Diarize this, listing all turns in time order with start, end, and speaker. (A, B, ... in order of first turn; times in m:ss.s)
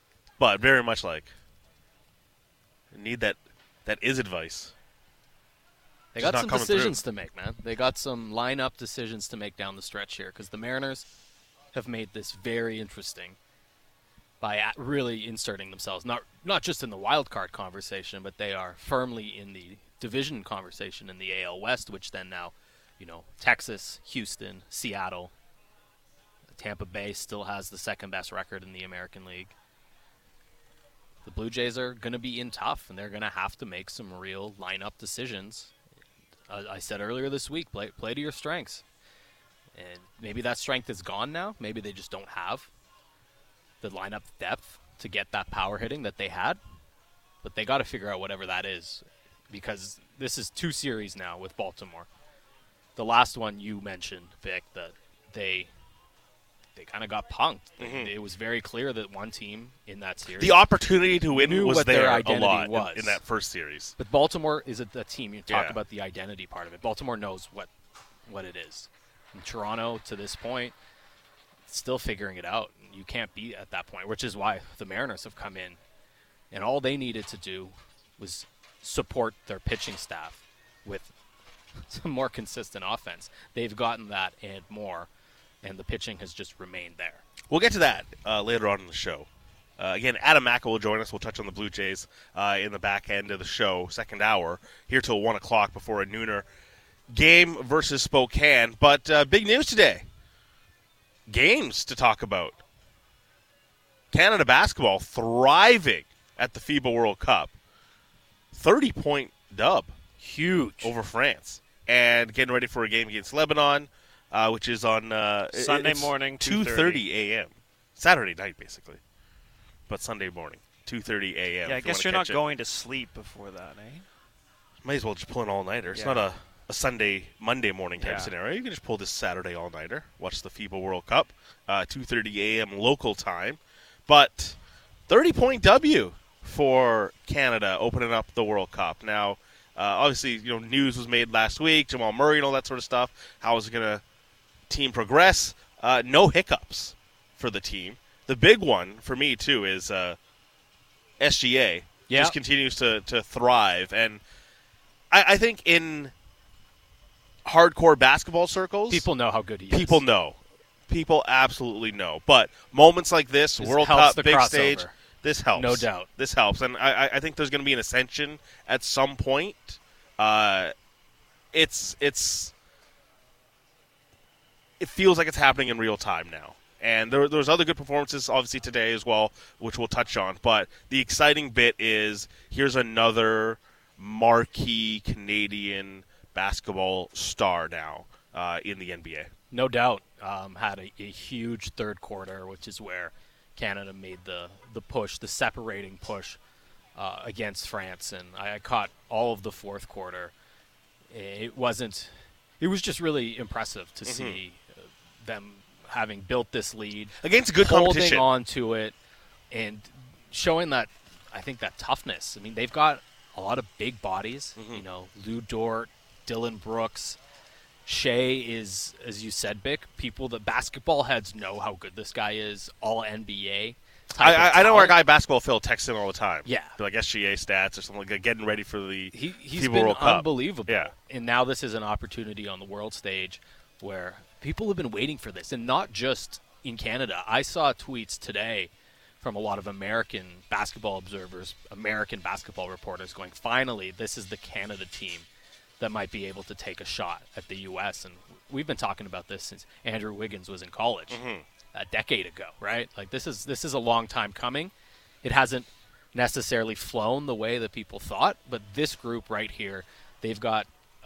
0:00.4-0:01.3 A
0:02.9-0:04.7 A
0:06.1-0:11.0 B
0:06.2-0:07.0 A
0:11.7-0:13.4 B
0:14.4-0:25.3 B
0:26.5-0:29.5 B
0:31.2-0:35.7 B
0:36.5-0:38.8 B
0:39.8-0:42.7 B
0:43.8-0:46.6 B
0:47.4-0:52.1 B
0:53.0-0:55.7 B
0:56.8-1:00.6 B
0:57.8-0:58.1 A
1:00.4-1:03.9 A
1:01.3-1:03.2 B
1:04.0-1:07.7 B
1:05.5-1:05.8 A
1:08.3-1:10.7 B
1:11.7-1:15.8 B
1:16.5-1:21.1 B
1:21.9-1:25.1 B
1:25.6-1:27.2 B
1:27.5-1:36.4 A
1:37.1-1:40.0 A
1:41.3-1:42.6 A
1:44.1-1:47.5 A
1:48.5-1:49.9 A
1:50.2-1:50.9 B
1:50.8-1:59.0 A
1:55.5-1:57.0 C
1:59.9-2:02.4 A
2:01.6-2:04.0 C
2:04.8-2:24.0 A
2:05.9-2:06.2 C
2:08.0-2:08.3 C
2:24.7-2:30.2 A
2:31.2-2:34.2 A
2:32.1-2:32.4 B
2:35.1-2:36.1 A
2:37.4-2:39.0 A
2:38.9-2:40.0 B
2:39.7-2:50.7 A
2:43.6-2:44.9 B
2:45.5-2:46.1 B
2:51.5-2:52.5 A
2:54.8-3:09.3 A
3:09.5-3:16.4 B
3:17.0-3:20.3 B
3:21.1-3:28.9 B
3:24.0-3:24.4 A
3:27.2-3:28.2 A
3:29.5-3:37.2 B
3:34.6-3:34.8 A
3:37.8-3:45.0 B
3:44.2-3:50.9 A
3:46.4-3:46.7 B
3:49.1-3:58.7 B
3:59.2-4:05.3 B
4:05.8-4:11.2 B
4:11.1-4:11.4 A
4:11.7-4:14.7 B
4:15.2-4:20.7 B